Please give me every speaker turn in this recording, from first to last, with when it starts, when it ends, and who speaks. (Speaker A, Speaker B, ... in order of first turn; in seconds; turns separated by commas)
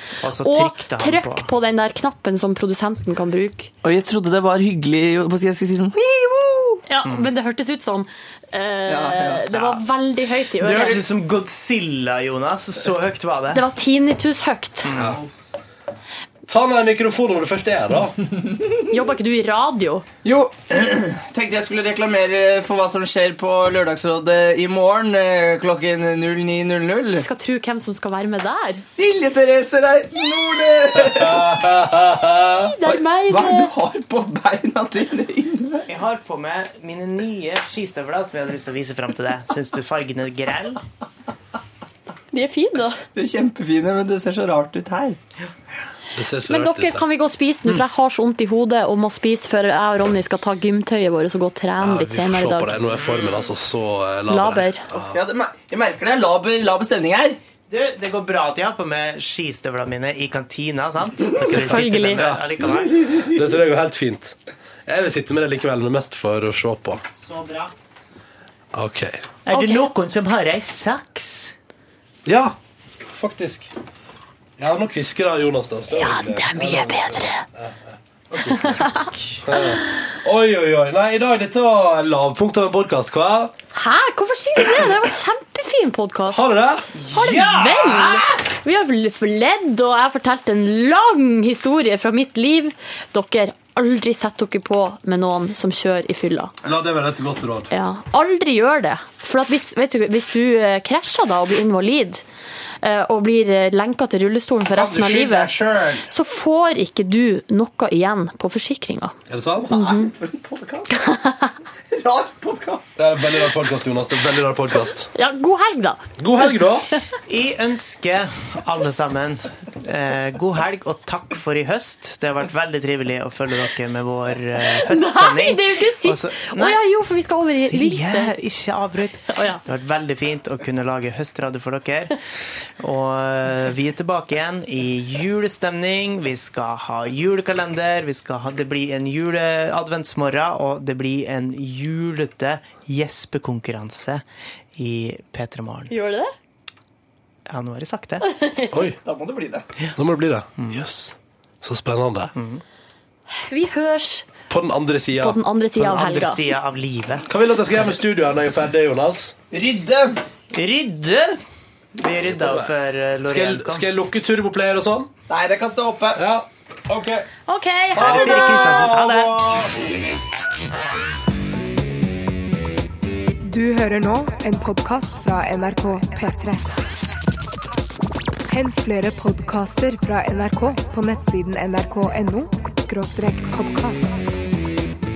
Speaker A: 0.2-1.5, Speaker B: 0.4-3.7, Speaker C: 3.8-6.8, Speaker B: 6.9-11.0, Speaker A: 7.0-7.3, Speaker C: 8.9-9.6, Speaker A: 10.6-13.6, Speaker B: 13.5-14.9, Speaker A: 14.8-15.1, Speaker D: 14.9-15.2, Speaker D: 16.5-18.2, Speaker C: 18.2-18.7, Speaker B: 18.9-20.1, Speaker C: 20.2-27.3, Speaker B: 27.2-28.8, Speaker C: 28.9-32.2, Speaker D: 30.9-32.7, Speaker B: 32.6-33.7, Speaker C: 32.8-35.9, Speaker A: 35.9-40.8, Speaker B: 42.3-43.0, Speaker C: 43.1-45.2, Speaker D: 46.1-47.0, Speaker B: 46.5-52.8, Speaker D: 51.8-55.2, Speaker A: 52.9-53.5, Speaker B: 54.3-54.9, Speaker C: 54.9-57.4, Speaker A: 57.7-63.1, Speaker B: 61.5-62.2, Speaker D: 61.5-67.0, Speaker A: 67.2-67.7, Speaker D: 68.7-69.3, Speaker A: 69.5-71.5, Speaker B: 69.5-69.9, Speaker D: 72.3-72.6, Speaker D: 73.1-73.7, Speaker D: 74.6-78.9, Speaker B: 75.9-77.5, Speaker B: 78.5-79.1, Speaker D: 79.4-83.5, Speaker B: 83.7-86.4, Speaker D: 86.3-86.9, Speaker B: 87.1-96.5, Speaker A: 87.2-88.4, Speaker D: 96.6-97.7, Speaker B: 97.7-102.2, Speaker B: 102.8-105.5, Speaker C: 104.6-106.0, Speaker B: 106.1-109.2, Speaker D: 109.3-109.8, Speaker C: 109.7-111.1, Speaker B: 109.7-110.1, Speaker B: 110.9-111.6, Speaker C: 111.9-113.5, Speaker D: 113.0-115.1, Speaker B: 115.1-116.1, Speaker D: 116.2-116.9, Speaker A: 117.3-126.8, Speaker B: 124.7-128.3, Speaker A: 127.5-144.2, Speaker B: 129.3-129.6, Speaker A: 144.8-145.9, Speaker B: 145.9-146.3, Speaker A: 147.5-148.3, Speaker B: 148.3-148.8, Speaker D: 148.7-149.0, Speaker C: 149.0-149.7, Speaker D: 150.0-152.3, Speaker A: 152.4-152.6, Speaker B: 153.4-154.3, Speaker D: 154.5-155.4, Speaker B: 155.2-156.4, Speaker A: 155.8-157.3, Speaker D: 157.3-159.3, Speaker C: 159.5-160.2, Speaker A: 160.5-161.4, Speaker A: 162.0-163.9, Speaker D: 162.1-162.7, Speaker D: 163.2-165.1, Speaker C: 165.3-166.3, Speaker D: 166.2-167.2, Speaker C: 166.9-167.2, Speaker B: 167.5-168.9, Speaker A: 168.0-169.4, Speaker D: 168.0-169.7, Speaker E: 173.4-176.8, Speaker E: 178.5-184.4